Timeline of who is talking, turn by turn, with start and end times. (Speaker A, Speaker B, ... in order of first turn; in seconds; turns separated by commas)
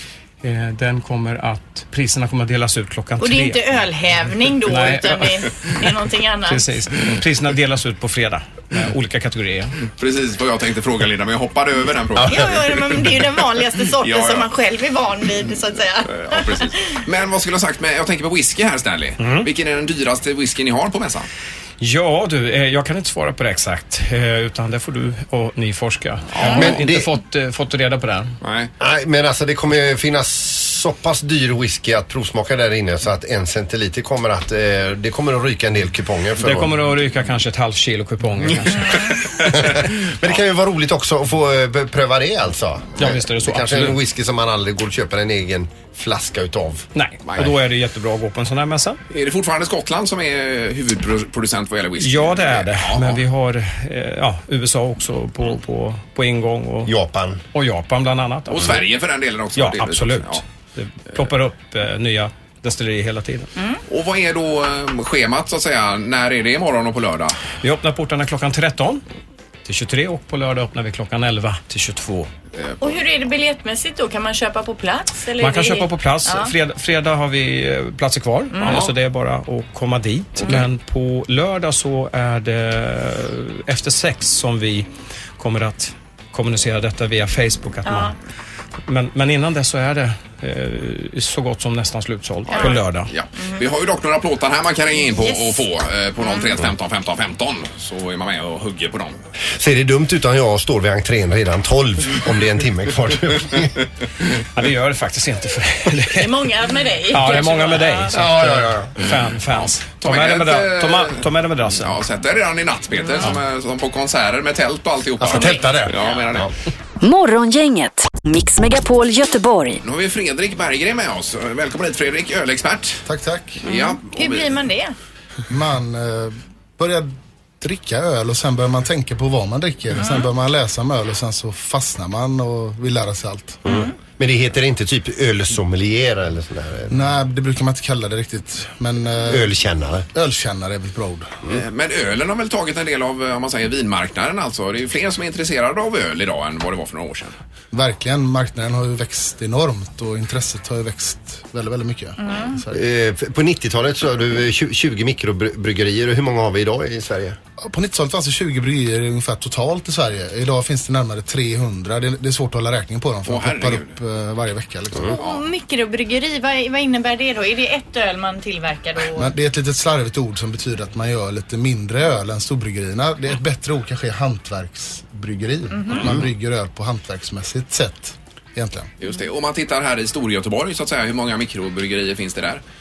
Speaker A: 0.4-3.7, Speaker B: 3.2-6.7, Speaker A: 4.6-5.7, Speaker A: 6.5-9.7, Speaker C: 10.0-13.1, Speaker B: 12.2-16.7, Speaker C: 14.0-14.5, Speaker C: 16.1-21.3, Speaker A: 19.2-19.4, Speaker A: 21.8-28.4, Speaker C: 26.3-26.8, Speaker D: 26.5-27.1, Speaker C: 28.4-28.7, Speaker D: 28.8-36.7, Speaker A: 36.4-39.0, Speaker D: 39.5-46.9, Speaker A: 43.0-44.0, Speaker A: 46.9-49.0, Speaker C: 47.2-47.5, Speaker C: 49.1-53.2, Speaker A: 52.0-56.9, Speaker D: 56.9-57.4, Speaker A: 57.5-58.8, Speaker C: 58.5-60.4, Speaker A: 59.5-63.5, Speaker C: 63.9-67.4, Speaker A: 67.6-69.0, Speaker A: 69.6-72.3, Speaker C: 72.6-73.0, Speaker B: 72.8-76.5, Speaker A: 75.4-84.9, Speaker B: 78.5-78.8, Speaker C: 78.6-78.9, Speaker A: 85.4-88.1, Speaker B: 87.8-88.1, Speaker A: 88.8-93.1, Speaker B: 92.5-92.8, Speaker C: 93.1-99.2, Speaker B: 93.4-93.6, Speaker B: 95.1-95.6, Speaker D: 99.6-103.7, Speaker A: 104.5-106.4, Speaker B: 106.1-108.2, Speaker A: 107.1-112.0, Speaker D: 108.1-108.9, Speaker C: 109.5-111.2, Speaker C: 111.8-116.5, Speaker D: 115.2-116.5, Speaker E: 117.0-119.8, Speaker C: 119.8-123.0, Speaker F: 123.0-123.6, Speaker C: 123.6-124.5, Speaker B: 123.6-124.9, Speaker F: 125.5-133.6, Speaker B: 130.0-130.3, Speaker B: 133.7-133.9, Speaker D: 133.7-137.0, Speaker F: 136.9-139.5, Speaker D: 139.3-140.1, Speaker F: 140.1-141.3, Speaker C: 141.5-147.4, Speaker F: 147.7-152.8, Speaker B: 152.2-152.5, Speaker D: 152.7-157.4, Speaker F: 157.6-165.1, Speaker C: 163.2-163.9, Speaker B: 165.0-169.3, Speaker F: 169.2-178.9, Speaker C: 179.0-182.6